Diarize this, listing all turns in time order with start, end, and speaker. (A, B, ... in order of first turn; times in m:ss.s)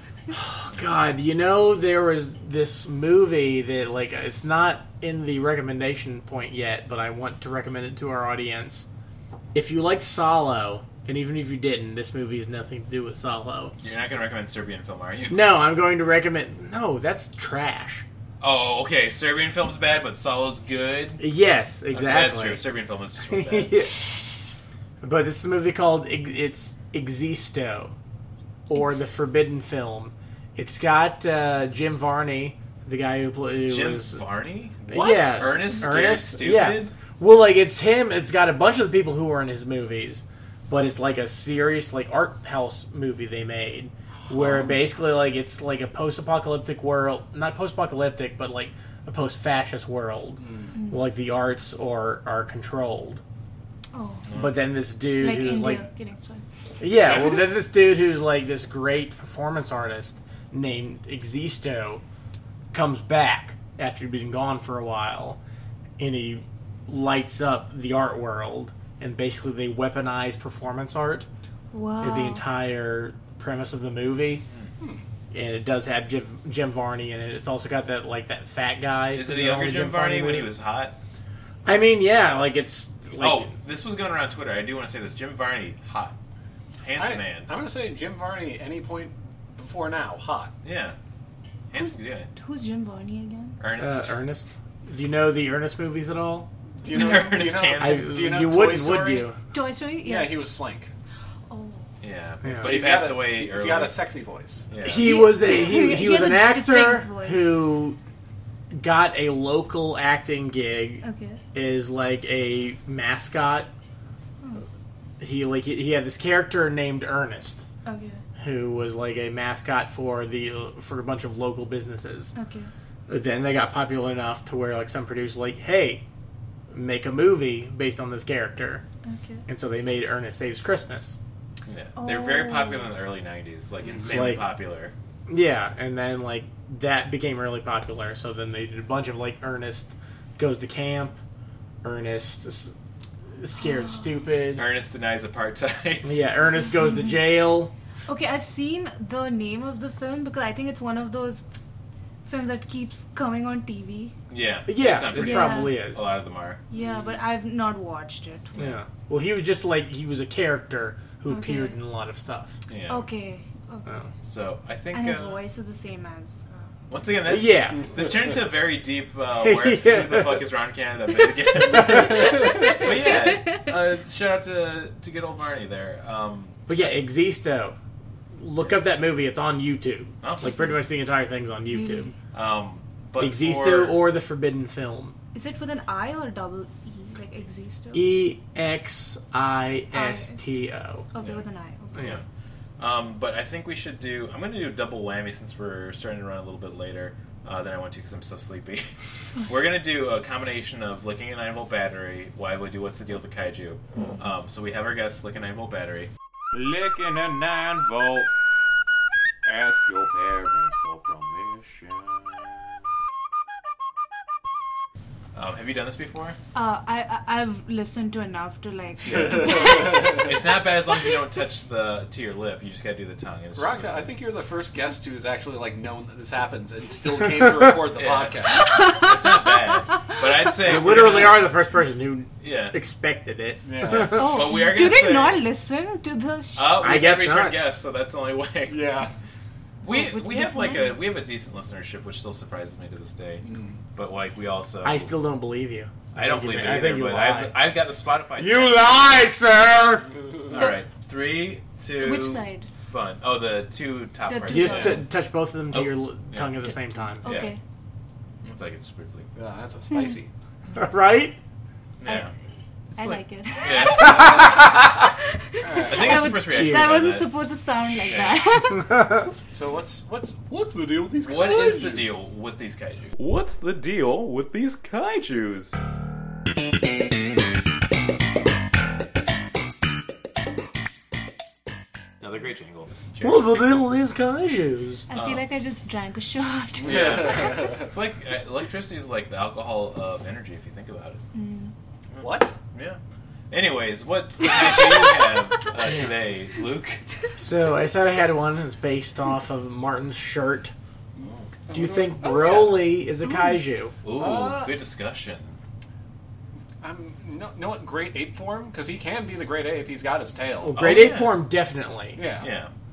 0:00.3-0:08.9 A
0:09.5-0:13.7 A
0:13.8-0:15.5 B
0:15.3-0:18.0 A
0:18.4-0:21.2 B
0:21.2-0:22.6 A
0:21.9-0:23.9 B
0:23.3-0:24.4 A
0:25.0-0:27.9 A
0:28.7-0:34.2 A
0:33.6-0:36.9 B
0:34.9-0:53.2 A
0:44.3-0:44.7 C
0:50.4-0:50.8 C
0:53.9-0:54.3 D
0:54.3-0:54.6 B
0:54.4-0:55.8 A
0:55.2-0:56.4 D
0:56.8-1:02.0 A
0:57.0-0:57.4 B
1:02.7-1:05.4 A
1:06.0-1:11.3 A
1:11.7-1:12.4 D
1:12.0-1:14.4 A
1:15.3-1:20.5 A
1:19.1-1:21.0 B
1:21.6-1:23.5 A
1:23.2-1:26.2 B
1:26.8-1:27.5 B
1:27.0-1:30.5 C
1:30.6-1:31.0 B
1:31.7-1:32.3 B
1:31.7-1:33.6 D
1:33.6-1:34.2 B
1:33.8-1:36.5 A
1:36.8-1:39.3 C
1:36.8-1:38.2 B
1:37.8-1:39.4 A
1:39.5-1:40.5 D
1:40.0-1:40.9 C
1:41.5-1:41.9 D
1:42.0-1:44.0 B
1:42.4-1:42.7 A
1:42.6-1:44.7 C
1:44.7-1:45.2 B
1:44.8-1:48.0 A
1:45.0-1:47.6 D
1:48.7-1:53.7 A
1:51.0-1:51.4 D
1:55.2-1:57.6 A
1:57.8-1:58.2 D
1:58.4-2:02.3 A
2:02.3-2:02.7 D
2:03.1-2:06.0 A
2:06.7-2:08.8 A
2:09.0-2:09.4 D
2:09.5-2:11.2 A
2:11.6-2:14.9 B
2:12.0-2:12.9 D
2:14.0-2:14.5 A
2:15.3-2:21.2 A
2:21.8-2:22.7 A
2:23.4-2:24.7 A
2:23.6-2:24.2 D
2:24.5-2:26.1 B
2:26.0-2:27.7 A
2:26.7-2:27.3 D
2:28.0-2:31.4 D
2:32.2-2:34.1 D
2:34.3-2:36.6 B
2:34.7-2:36.1 A
2:35.1-2:35.8 D
2:36.7-2:38.5 D
2:36.7-2:37.2 C
2:38.5-2:38.8 B
2:38.5-2:42.6 A
2:41.3-2:41.8 D
2:42.7-2:43.1 B
2:42.9-2:43.9 D
2:44.2-2:45.4 B
2:44.9-2:46.7 D
2:46.9-2:57.0 B
2:47.2-2:47.9 A
2:49.4-2:50.4 A
2:51.7-2:52.5 A
2:52.4-2:53.7 D
2:56.7-2:57.8 A
2:58.3-3:02.1 A
3:00.2-3:00.6 B
3:01.7-3:02.1 D
3:02.3-3:04.0 B
3:03.2-3:05.2 A
3:05.3-3:08.2 D
3:07.9-3:11.1 A
3:09.9-3:10.5 D
3:11.1-3:12.2 D
3:11.2-3:11.4 B
3:12.0-3:12.2 B
3:12.8-3:26.1 B
3:26.5-3:28.3 E
3:29.4-3:32.6 E
3:35.3-3:36.4 B
3:36.5-3:40.3 D
3:39.0-3:44.1 B
3:39.1-3:40.2 C
3:43.5-3:48.7 C
3:48.0-3:51.5 B
3:48.5-3:50.3 D
3:50.6-3:54.4 A
3:50.8-3:51.3 C
3:52.4-3:52.8 B
3:53.6-3:54.3 C
3:53.9-3:55.4 B
3:54.0-3:56.8 D
3:56.6-3:59.0 B
3:56.8-3:57.6 A
3:58.7-3:59.1 C
3:59.8-4:05.1 B
3:59.8-4:01.0 D
4:03.4-4:03.8 C
4:04.8-4:07.6 A
4:06.1-4:09.2 B
4:08.4-4:10.1 A
4:10.5-4:15.1 B
4:10.5-4:10.8 D
4:12.0-4:12.7 D
4:14.3-4:15.0 D
4:14.5-4:17.3 A
4:15.7-4:16.6 B
4:17.2-4:17.6 D
4:17.2-4:17.5 B
4:18.4-4:19.3 B
4:19.3-4:20.3 C
4:19.9-4:20.2 D
4:20.7-4:21.4 A
4:22.0-4:22.3 B
4:23.0-4:29.2 D
4:23.6-4:24.8 B
4:24.0-4:24.7 A
4:24.1-4:24.6 C
4:25.6-4:26.3 C
4:25.8-4:27.3 B
4:26.3-4:27.0 A
4:28.1-4:28.4 B
4:29.5-4:32.1 C
4:31.2-4:35.8 B
4:42.2-4:43.8 B
4:43.2-4:45.0 A
4:45.1-4:47.7 D
4:45.1-4:45.4 B
4:46.8-4:47.9 C
4:46.8-4:51.2 B
4:51.3-4:51.7 D
4:52.1-4:53.0 B
4:52.2-4:52.5 C
4:53.5-4:57.0 B
4:54.4-4:55.2 D
4:57.4-5:00.7 A
5:01.2-5:01.5 B
5:01.6-5:02.9 C
5:01.7-5:03.9 A
5:04.0-5:05.6 B
5:04.1-5:04.7 C
5:06.8-5:10.9 C
5:10.6-5:12.2 A
5:10.7-5:11.4 B
5:12.1-5:12.5 C
5:12.4-5:12.7 B